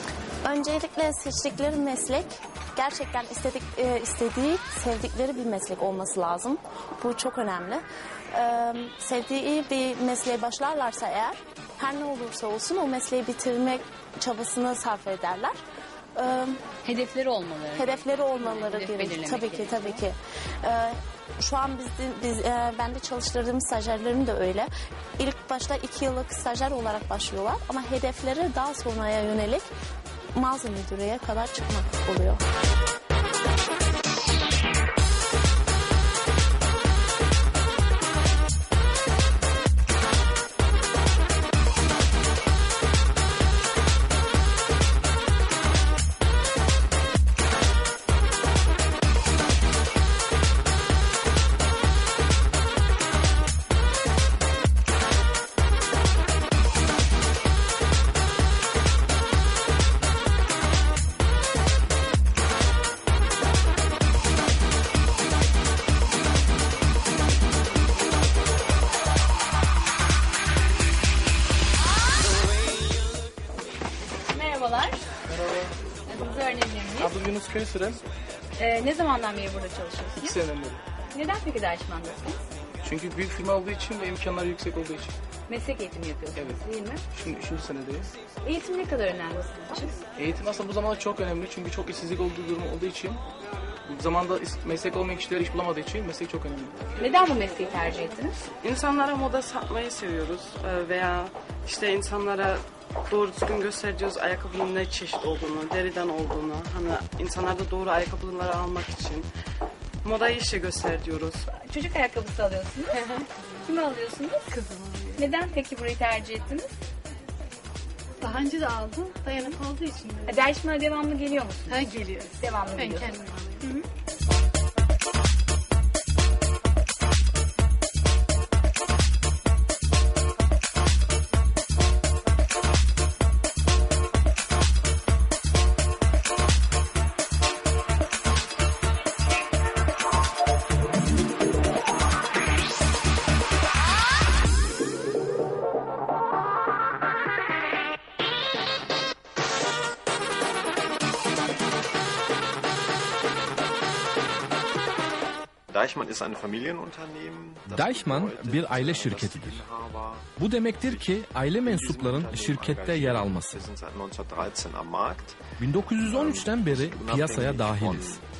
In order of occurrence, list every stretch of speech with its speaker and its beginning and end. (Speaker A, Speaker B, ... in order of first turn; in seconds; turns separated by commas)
Speaker A: 0.5-7.8, Speaker A: 8.3-15.6, Speaker A: 16.2-16.6, Speaker B: 16.8-20.0, Speaker A: 17.8-29.7, Speaker A: 30.4-32.4, Speaker B: 74.3-75.0, Speaker C: 75.3-75.7, Speaker B: 76.1-77.2, Speaker C: 77.0-78.0, Speaker B: 78.6-80.4, Speaker C: 80.2-80.8, Speaker B: 81.1-82.4, Speaker C: 82.8-85.2, Speaker B: 85.5-87.0, Speaker C: 86.3-86.6, Speaker C: 87.1-88.1, Speaker B: 88.4-90.0, Speaker C: 90.2-93.2, Speaker C: 93.9-97.0, Speaker B: 97.0-98.4, Speaker D: 98.6-109.3, Speaker D: 110.0-111.4, Speaker B: 111.5-113.1, Speaker B: 113.6-114.5, Speaker E: 114.5-115.2, Speaker B: 115.2-116.7, Speaker E: 118.2-120.3, Speaker B: 120.2-123.8, Speaker E: 121.7-123.6, Speaker F: 155.7-160.3, Speaker G: 157.7-159.6, Speaker G: 160.4-163.6, Speaker F: 160.8-168.2, Speaker G: 165.6-168.2